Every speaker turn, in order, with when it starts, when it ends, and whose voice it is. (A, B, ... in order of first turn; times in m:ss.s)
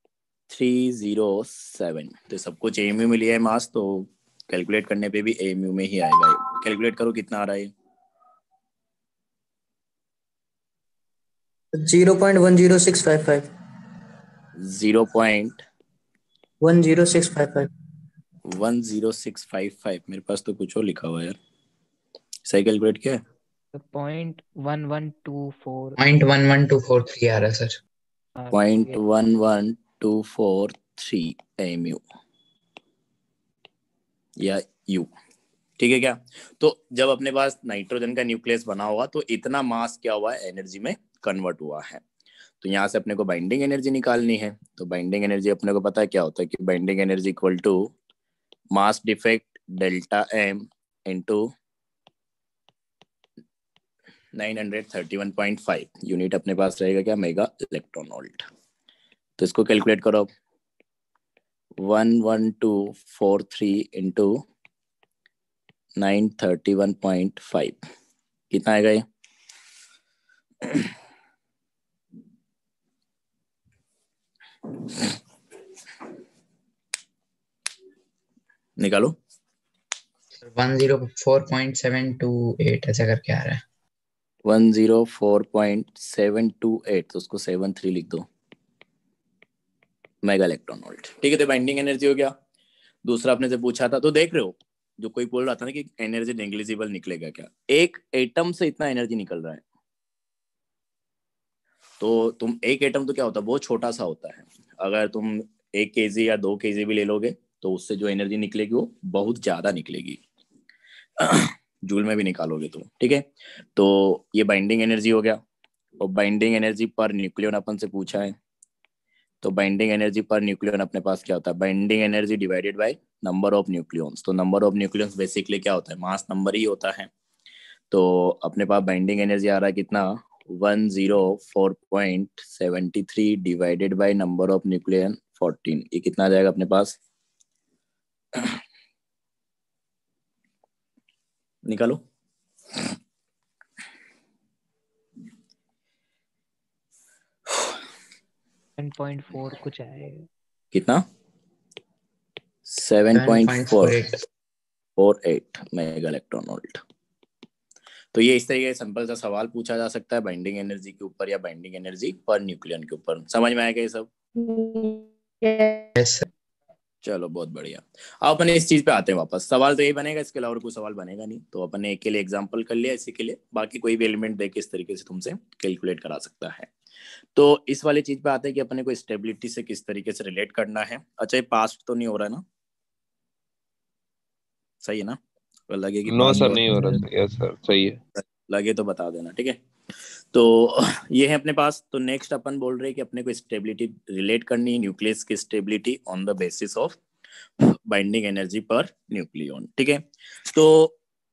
0:00.5-0:07.7 A
0:11.7-0:13.5 B
0:14.6-0:15.6 A
0:16.6-0:17.7 B
0:18.4-0:21.4 A
0:22.4-0:23.2 A
0:23.7-0:26.0 C
0:26.0-0:27.8 D
0:28.4-0:29.0 C
0:28.5-0:32.0 A
0:34.4-0:35.1 A
0:35.8-0:42.0 A
0:42.6-0:47.9 A
0:48.7-0:51.5 A
0:54.4-0:58.4 A
0:59.4-1:00.3 A
1:01.8-1:04.4 A
1:06.0-1:07.8 A
1:08.5-1:09.0 A
1:18.8-1:19.1 A
1:20.4-1:23.6 D
1:24.4-1:28.3 A
1:30.2-1:32.3 A
1:33.0-1:39.6 A
1:42.0-1:50.2 A
1:51.2-1:55.4 A
1:56.0-1:58.4 A
1:59.4-2:07.1 A
2:07.9-2:17.0 A
2:21.6-2:22.0 A
2:28.8-2:30.3 C
2:30.7-2:31.0 A
2:32.7-2:34.0 A
2:33.1-2:34.2 D
2:35.0-2:36.8 A
2:38.1-2:44.1 A
2:46.0-2:46.3 D
2:47.0-2:56.7 A
2:57.4-3:02.4 A
3:04.8-3:05.2 A
3:05.7-3:06.8 A
3:06.1-3:08.0 E
3:08.5-3:09.6 A
3:10.3-3:17.0 A
3:17.9-3:20.9 A